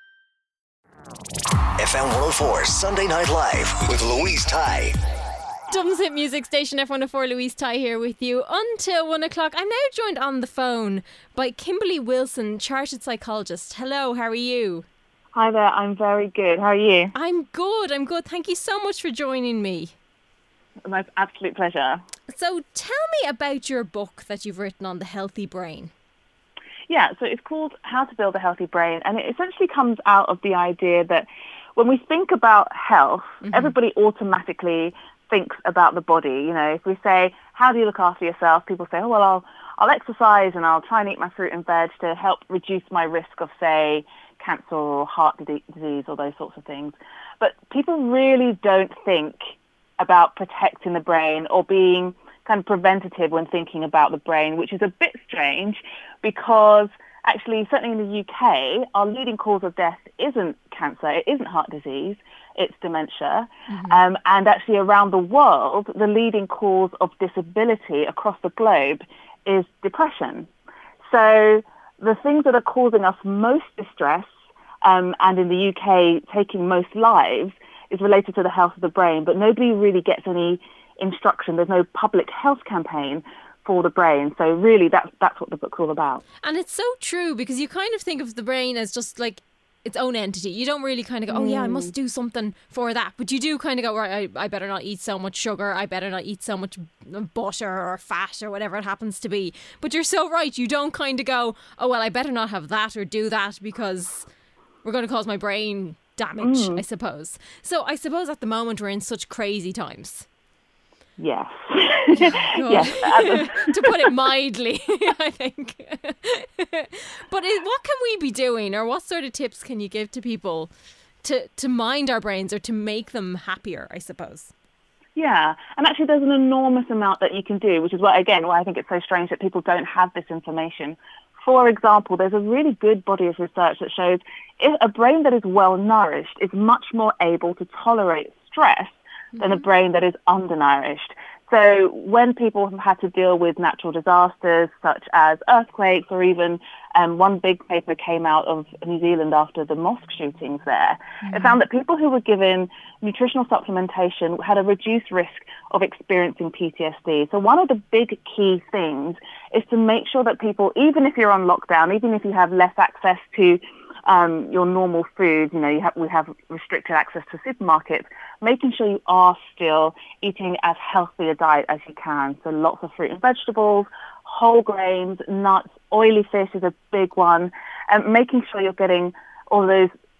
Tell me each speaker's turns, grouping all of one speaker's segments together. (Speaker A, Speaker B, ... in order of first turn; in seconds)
Speaker A: 1.8-5.0
Speaker B: 5.7-14.8, 17.1-19.9, 22.3-25.9, 33.5-33.7, 63.7-64.0, 86.4-104.3, 104.8-110.3, 112.2-120.7, 121.2-124.5, 139.3-139.6, 151.2-151.6
Speaker C: 15.3-17.1, 20.9-22.0, 26.9-49.4, 50.0-70.5, 71.1-74.3, 74.8-86.2, 91.3-91.9, 106.4-106.8, 111.2-113.7, 125.2-179.9